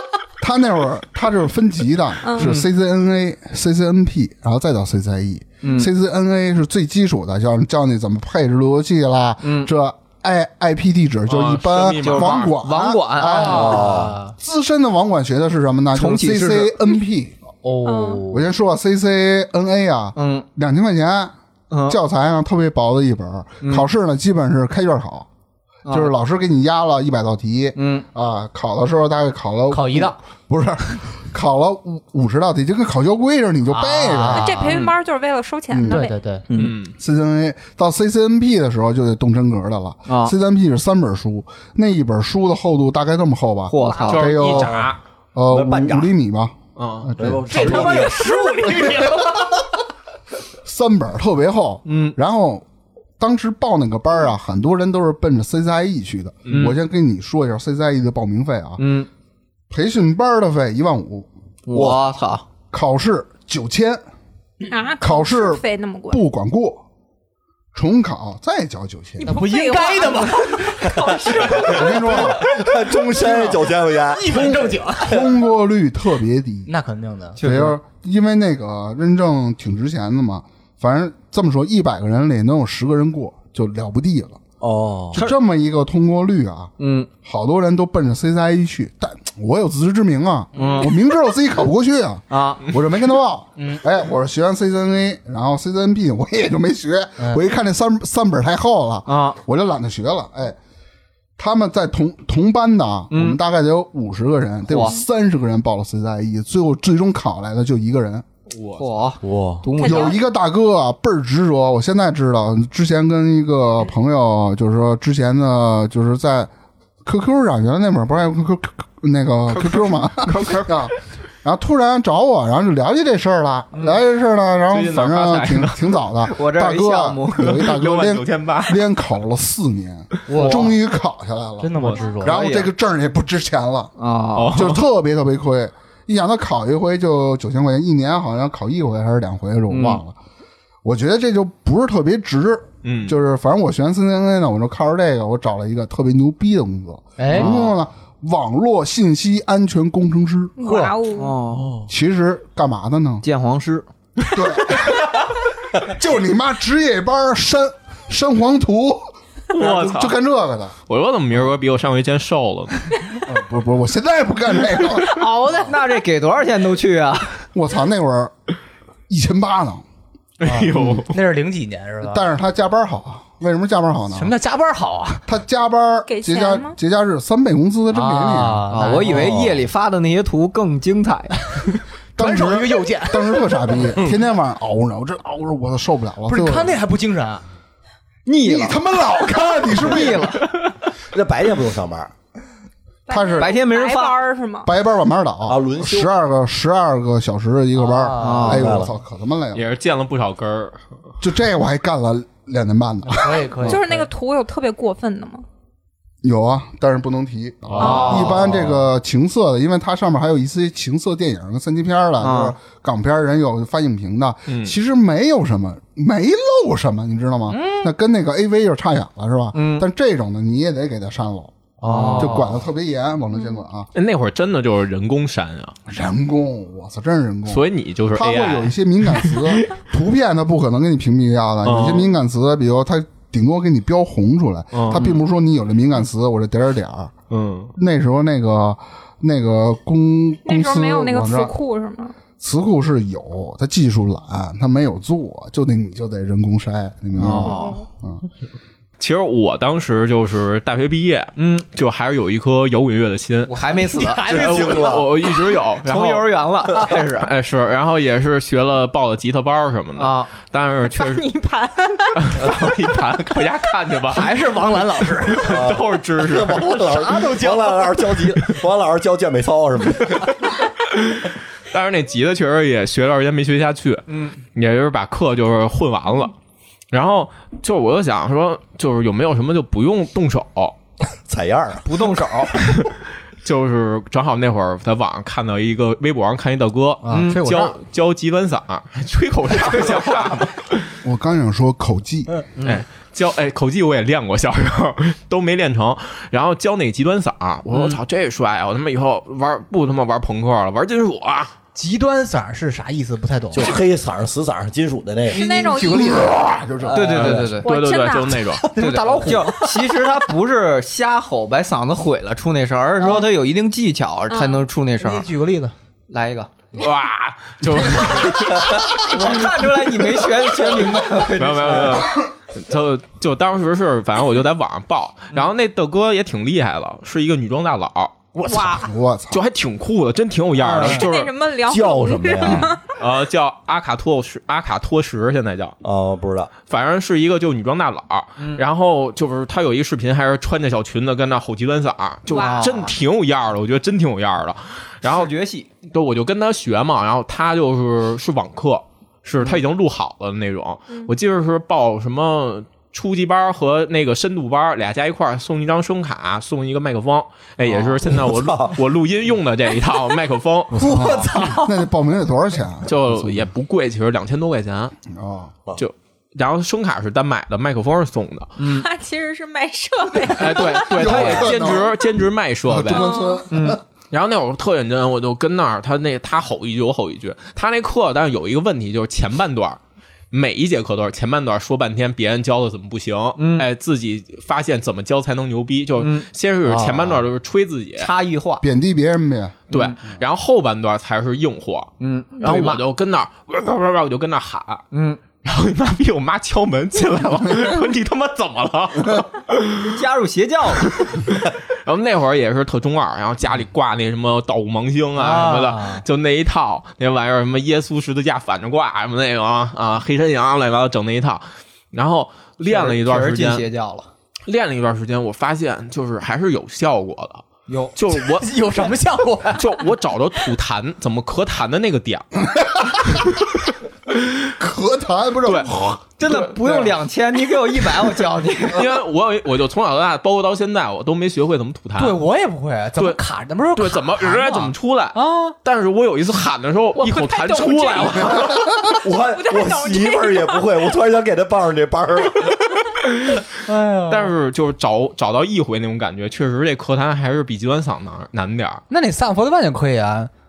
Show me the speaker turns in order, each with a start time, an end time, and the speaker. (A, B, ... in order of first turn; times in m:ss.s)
0:00.4-0:17.4 A
0:02.2-0:02.5 B
0:02.4-0:02.6 C
0:05.6-0:05.9 C
0:09.4-0:09.7 C
0:11.3-0:12.5 D
0:12.0-0:13.8 C
0:13.2-0:14.3 E
0:13.5-0:14.2 F
0:15.9-0:16.7 C
0:17.6-0:18.4 E
0:17.8-0:18.2 B
0:18.3-0:21.3 A
0:20.2-0:20.4 C
0:21.7-0:22.0 C
0:21.9-0:25.3 A
0:23.6-0:23.9 C
0:25.8-0:26.1 C
0:25.9-0:34.5 A
0:27.8-0:28.0 C
0:29.7-0:30.2 E
0:33.7-0:34.8 E
0:34.3-0:36.2 B
0:34.6-0:34.9 C
0:35.7-0:36.1 A
0:35.8-0:36.4 E
0:36.5-0:36.7 C
0:36.5-0:37.0 D
0:37.0-0:48.1 A
0:40.1-0:40.3 C
0:43.7-0:44.6 C
0:44.1-0:45.0 D
0:45.5-0:46.1 F
0:46.8-0:47.1 D
0:47.2-0:48.3 F
0:47.5-0:48.9 C
0:47.6-0:49.1 E
0:48.7-0:49.4 A
0:50.6-0:52.6 A
0:51.8-0:52.2 C
0:53.2-0:58.8 A
0:56.4-0:56.7 D
0:56.5-0:56.7 C
0:58.8-0:59.1 C
0:59.7-1:01.3 A
1:01.7-1:02.4 C
1:01.7-1:02.0 F
1:02.7-1:04.0 A
1:04.7-1:06.2 B
1:05.0-1:06.8 A
1:07.7-1:09.4 A
1:09.2-1:12.3 E
1:09.2-1:11.8 B
1:10.9-1:14.5 F
1:11.6-1:12.5 A
1:13.1-1:13.6 A
1:14.1-1:15.2 E
1:14.2-1:16.7 A
1:16.7-1:17.4 E
1:17.4-1:17.8 C
1:17.4-1:24.4 A
1:24.6-1:25.2 F
1:25.1-1:26.7 A
1:26.8-1:27.1 C
1:27.2-1:40.6 A
1:30.6-1:30.9 C
1:30.6-1:30.8 E
1:32.3-1:32.6 C
1:39.0-1:39.4 C
1:41.4-1:48.2 A
1:43.1-1:43.4 C
1:44.7-1:45.0 C
1:48.5-1:48.8 D
1:48.8-1:50.2 C
1:49.2-1:49.6 F
1:49.8-1:50.2 B
1:49.8-1:56.5 A
1:57.0-2:13.9 A
1:59.5-2:00.9 D
2:03.7-2:04.0 C
2:04.7-2:06.0 D
2:06.3-2:07.6 C
2:07.4-2:08.8 D
2:10.3-2:10.7 E
2:10.4-2:10.7 C
2:11.6-2:12.4 E
2:12.2-2:12.7 C
2:14.0-2:14.6 C
2:14.4-2:14.8 D
2:14.5-2:20.2 A
2:19.7-2:20.0 C
2:20.8-2:30.5 A
2:22.8-2:23.2 D
2:27.2-2:27.6 E
2:27.3-2:27.7 C
2:30.6-2:31.4 B
2:30.6-2:31.0 E
2:31.2-2:31.7 C
2:31.6-2:31.8 D
2:31.9-2:33.2 A
2:33.2-2:33.9 C
2:34.3-2:40.7 A
2:39.5-2:40.2 D
2:40.9-2:42.8 D
2:43.2-2:45.7 A
2:45.0-2:45.8 B
2:45.6-2:47.4 C
2:47.5-2:48.3 A
2:49.1-2:49.8 A
2:50.4-2:51.2 D
2:50.4-2:52.2 E
2:52.0-2:54.3 A
2:54.1-2:55.2 E
2:55.2-2:58.6 A
2:56.1-2:56.7 B
2:57.9-2:59.3 E
2:58.7-3:01.4 C
2:59.1-2:59.6 F
3:02.2-3:06.8 A
3:02.2-3:03.8 E
3:06.3-3:07.4 E
3:08.2-3:08.8 C
3:08.4-3:10.4 A
3:09.7-3:10.4 C
3:11.1-3:12.1 F
3:13.1-3:14.7 B
3:13.1-3:13.5 A
3:13.4-3:14.2 C
3:14.6-3:19.6 A
3:15.5-3:16.1 F
3:17.7-3:18.7 E
3:18.2-3:18.6 C
3:18.5-3:18.9 F
3:19.5-3:20.8 D
3:21.2-3:23.8 A
3:23.1-3:24.1 E
3:23.6-3:25.4 B
3:26.2-3:41.6 A
3:27.7-3:28.4 D
3:27.8-3:28.4 C
3:27.8-3:28.4 B
3:32.2-3:32.6 C
3:34.5-3:34.7 D
3:37.5-3:37.8 E
3:39.5-3:39.9 C
3:41.8-3:42.6 E
3:41.8-3:42.5 C
3:42.1-3:43.9 A
3:43.3-3:43.6 B
3:43.9-3:45.8 D
3:45.9-3:57.1 A
3:47.5-3:48.7 D
3:49.2-3:49.6 D
3:51.6-3:52.1 D
3:54.7-3:55.2 D
3:57.3-3:57.7 D
3:57.8-4:01.5 A
4:00.4-4:02.1 B
4:02.4-4:08.2 A
4:07.2-4:07.8 C
4:07.4-4:07.8 B
4:09.0-4:13.5 D
4:11.4-4:11.6 C
4:13.4-4:14.2 C
4:13.8-4:14.8 E
4:14.2-4:16.3 D
4:14.3-4:15.1 F
4:15.8-4:17.3 C
4:17.2-4:21.2 D
4:20.0-4:20.3 C
4:20.9-4:22.4 B
4:22.2-4:24.3 D
4:24.1-4:25.7 E
4:25.3-4:27.1 D
4:25.4-4:30.4 F
4:26.6-4:27.6 E
4:30.9-4:36.3 D
4:34.1-4:34.4 C
4:36.9-4:40.8 D
4:41.2-4:41.8 F
4:41.8-4:42.5 C
4:43.4-4:50.9 D
4:47.0-4:47.8 E
4:47.1-4:47.4 C
4:51.0-4:52.3 A
4:52.6-4:52.8 C
4:52.6-5:01.5 D
4:57.7-4:58.0 C
5:01.7-5:03.8 E
5:03.5-5:05.4 F
5:05.3-5:06.3 B
5:05.3-5:07.5 E
5:05.7-5:07.2 A
5:06.9-5:07.7 C
5:07.1-5:08.6 D
5:07.6-5:08.4 B
5:08.4-5:10.0 E
5:08.8-5:15.2 C
5:14.3-5:14.6 B
5:15.0-5:15.7 E
5:16.1-5:16.5 C
5:16.7-5:19.5 D
5:18.8-5:22.1 C
5:21.2-5:28.4 D
5:28.4-5:28.9 B
5:28.7-5:29.4 A
5:29.3-5:31.3 D
5:30.6-5:31.0 C
5:30.8-5:32.8 B
5:31.7-5:32.7 F
5:33.0-5:35.8 D
5:35.8-5:36.5 F
5:36.7-5:45.3 D
5:42.3-5:42.7 B
5:42.3-5:42.9 C
5:45.0-5:45.7 C
5:45.8-6:01.1 D
5:58.0-5:58.8 F
6:00.7-6:01.8 E
6:00.8-6:03.5 A
6:02.8-6:05.0 D
6:05.1-6:05.5 A
6:05.8-6:08.6 D
6:08.6-6:08.9 C
6:08.7-6:11.2 B
6:10.3-6:13.1 D
6:10.7-6:12.0 A
6:12.6-6:13.8 A
6:12.9-6:13.4 B
6:13.5-6:13.8 C
6:14.1-6:19.8 D
6:20.3-6:28.1 D
6:23.4-6:23.7 C
6:26.0-6:27.2 C
6:28.0-6:28.6 C
6:28.6-6:29.6 A
6:29.7-6:34.8 D
6:29.7-6:30.0 C
6:32.0-6:32.8 C
6:34.9-6:35.2 C
6:35.4-6:39.9 D
6:39.8-6:41.1 C
6:40.8-6:53.6 D
6:45.2-6:46.0 E
6:52.6-6:54.1 C
6:54.5-6:57.4 D
6:57.7-6:57.9 C
6:58.0-6:58.5 D
6:58.1-6:59.8 E
6:59.5-7:03.4 D
7:02.5-7:03.2 A
7:04.6-7:06.0 A
7:05.4-7:05.7 D
7:06.2-7:08.8 C
7:06.2-7:06.9 D
7:08.6-7:12.2 D
7:12.0-7:15.5 E
7:13.7-7:18.7 D
7:16.9-7:20.9 B
7:19.0-7:22.5 F
7:23.0-7:23.5 D
7:23.6-7:24.3 E
7:24.1-7:28.8 D
7:28.9-7:30.3 E